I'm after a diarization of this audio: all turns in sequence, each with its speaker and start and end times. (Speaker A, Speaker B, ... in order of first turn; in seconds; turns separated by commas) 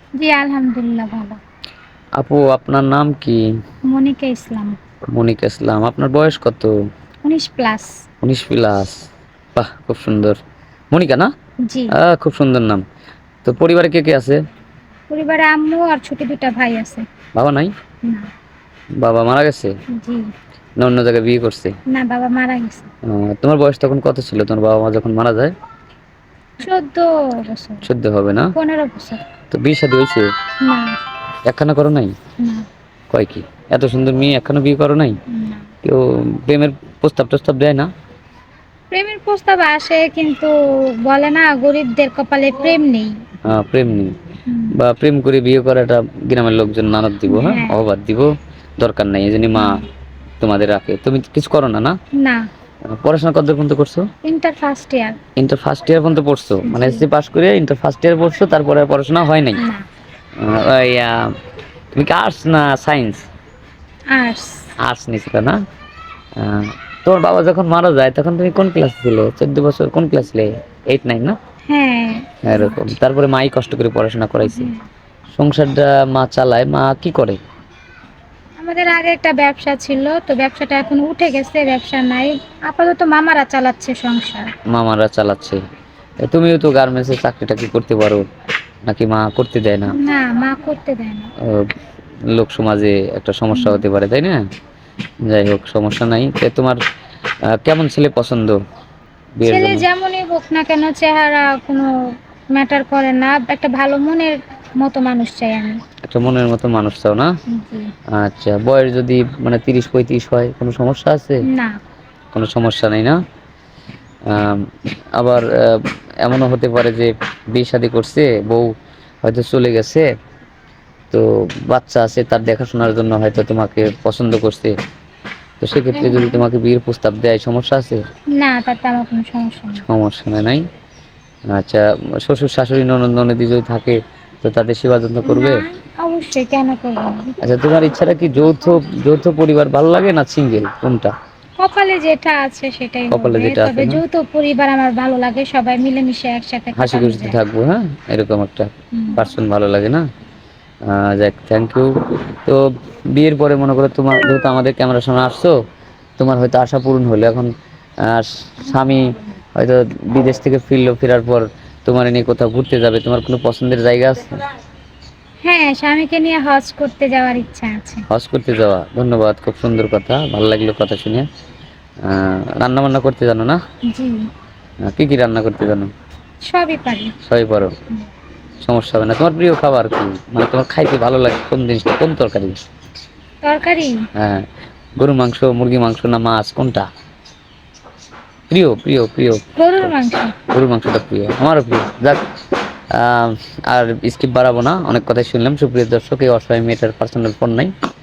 Speaker A: 0.2-1.4, Speaker B: 2.2-3.4, Speaker A: 3.9-4.8, Speaker B: 5.1-6.7, Speaker A: 7.2-7.9, Speaker B: 8.2-10.4, Speaker B: 10.9-11.3, Speaker A: 11.7-11.9, Speaker B: 11.9-12.8, Speaker B: 13.4-14.4, Speaker A: 15.1-17.1, Speaker B: 17.4-17.7, Speaker B: 19.0-19.7, Speaker A: 19.9-20.2, Speaker B: 20.8-21.8, Speaker A: 21.9-22.9, Speaker B: 23.0-25.5, Speaker A: 26.6-27.9, Speaker B: 27.8-28.5, Speaker A: 28.6-29.2, Speaker B: 29.5-30.3, Speaker A: 30.6-31.0, Speaker B: 31.5-32.1, Speaker A: 32.4-32.7, Speaker B: 33.1-35.2, Speaker A: 35.3-35.6, Speaker B: 35.8-37.9, Speaker A: 38.9-43.1, Speaker B: 43.5-44.1, Speaker A: 44.5-44.8, Speaker B: 44.7-49.8, Speaker A: 47.3-47.8, Speaker A: 49.5-49.9, Speaker B: 50.4-52.0, Speaker A: 52.2-52.5, Speaker B: 52.9-54.1, Speaker A: 54.2-55.2, Speaker B: 55.4-59.6, Speaker A: 56.6-57.1, Speaker A: 59.6-59.9, Speaker B: 60.4-61.3, Speaker B: 61.9-63.2, Speaker A: 64.1-64.7, Speaker B: 64.8-65.6, Speaker B: 66.4-71.4, Speaker A: 71.7-72.8, Speaker B: 72.5-74.7, Speaker A: 74.4-74.8, Speaker B: 75.3-77.4, Speaker A: 78.6-84.5, Speaker B: 84.7-85.6, Speaker B: 86.2-88.2, Speaker B: 88.9-90.0, Speaker A: 89.9-91.3, Speaker B: 91.4-91.7, Speaker B: 92.3-94.4, Speaker A: 93.5-93.8, Speaker B: 95.3-96.8, Speaker B: 97.5-98.6, Speaker B: 99.4-99.9, Speaker A: 99.5-101.9, Speaker A: 102.5-105.8, Speaker B: 106.1-107.3, Speaker A: 107.5-107.9, Speaker B: 108.1-111.5, Speaker A: 111.5-111.8, Speaker B: 112.3-113.2, Speaker B: 114.3-118.7, Speaker B: 119.2-120.1, Speaker B: 121.1-124.8, Speaker B: 125.6-128.0, Speaker A: 126.0-126.4, Speaker A: 128.4-129.8, Speaker B: 129.8-130.7, Speaker B: 131.5-135.6, Speaker A: 135.2-137.4, Speaker B: 137.4-141.1, Speaker A: 141.6-147.4, Speaker B: 143.1-144.0, Speaker B: 146.8-150.0, Speaker A: 148.9-149.2, Speaker B: 150.9-155.5, Speaker B: 156.2-157.5, Speaker B: 158.0-164.4, Speaker A: 165.4-168.1, Speaker B: 168.1-171.3, Speaker B: 172.0-173.6, Speaker A: 173.9-174.3, Speaker B: 174.9-175.9, Speaker A: 176.4-177.1, Speaker B: 177.2-177.7, Speaker B: 178.6-182.6, Speaker A: 183.4-184.0, Speaker B: 184.2-184.4, Speaker B: 185.0-186.9, Speaker B: 188.5-189.9, Speaker A: 189.6-190.4, Speaker B: 190.5-192.2, Speaker B: 192.9-197.7